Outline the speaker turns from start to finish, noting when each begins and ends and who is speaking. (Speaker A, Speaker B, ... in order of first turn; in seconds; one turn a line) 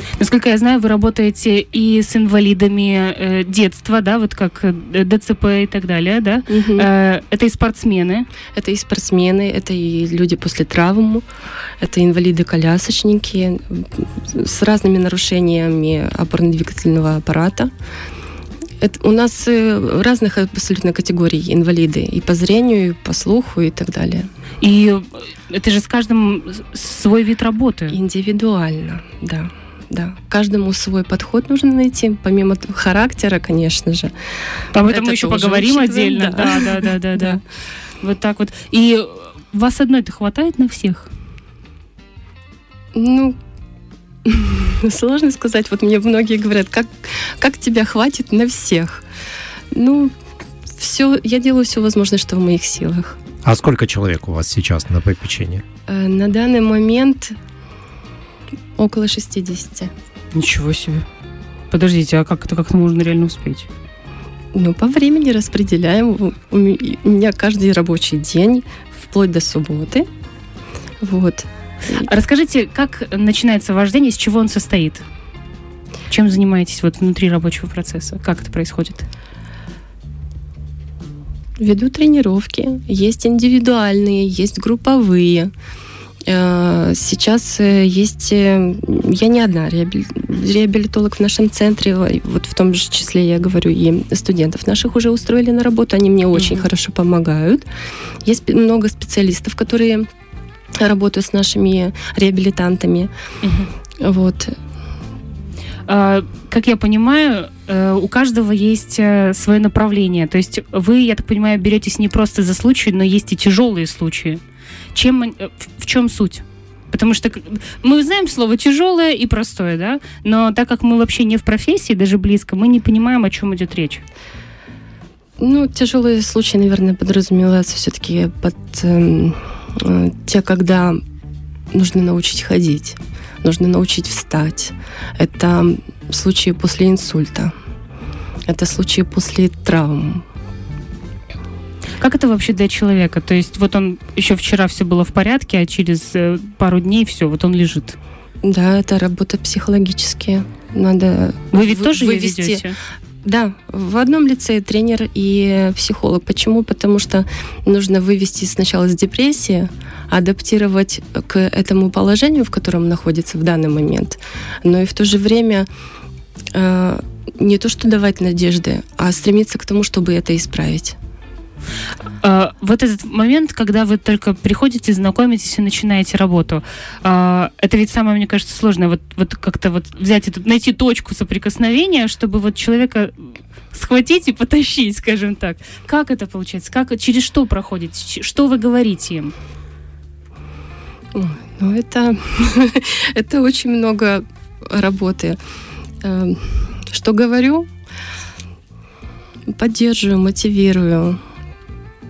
Speaker A: 0.2-8.3
Speaker B: 6.5-6.9
Speaker B: 8.6-11.2
Speaker B: 11.8-17.7
Speaker B: 18.8-24.3
Speaker A: 24.6-28.0
Speaker B: 27.9-34.1
Speaker A: 34.7-37.4
Speaker B: 34.8-37.4
Speaker A: 38.0-41.1
Speaker B: 43.0-43.4
Speaker B: 44.2-49.0
Speaker B: 49.7-50.1
Speaker B: 50.8-53.2
Speaker C: 53.4-55.6
Speaker B: 55.9-57.4
Speaker B: 58.8-59.9
Speaker A: 60.3-61.1
Speaker A: 61.7-63.7
Speaker B: 64.5-70.1
Speaker B: 71.0-72.1
Speaker A: 71.9-75.0
Speaker A: 76.1-79.1
Speaker B: 81.6-85.5
Speaker B: 86.3-97.7
Speaker A: 96.3-96.6
Speaker B: 98.2-100.1
Speaker B: 100.8-103.1
Speaker A: 103.4-103.7
Speaker B: 104.0-104.6
Speaker A: 105.9-114.4
Speaker A: 114.9-124.0
Speaker B: 125.4-131.0
Speaker B: 131.7-137.5
Speaker B: 138.5-140.2
Speaker A: 142.0-148.0
Speaker B: 148.4-152.6
Speaker A: 151.5-152.8
Speaker B: 153.2-165.7
Speaker B: 166.5-171.0
Speaker A: 172.2-189.3
Speaker B: 191.1-195.4
Speaker B: 196.0-197.7
Speaker B: 199.5-201.2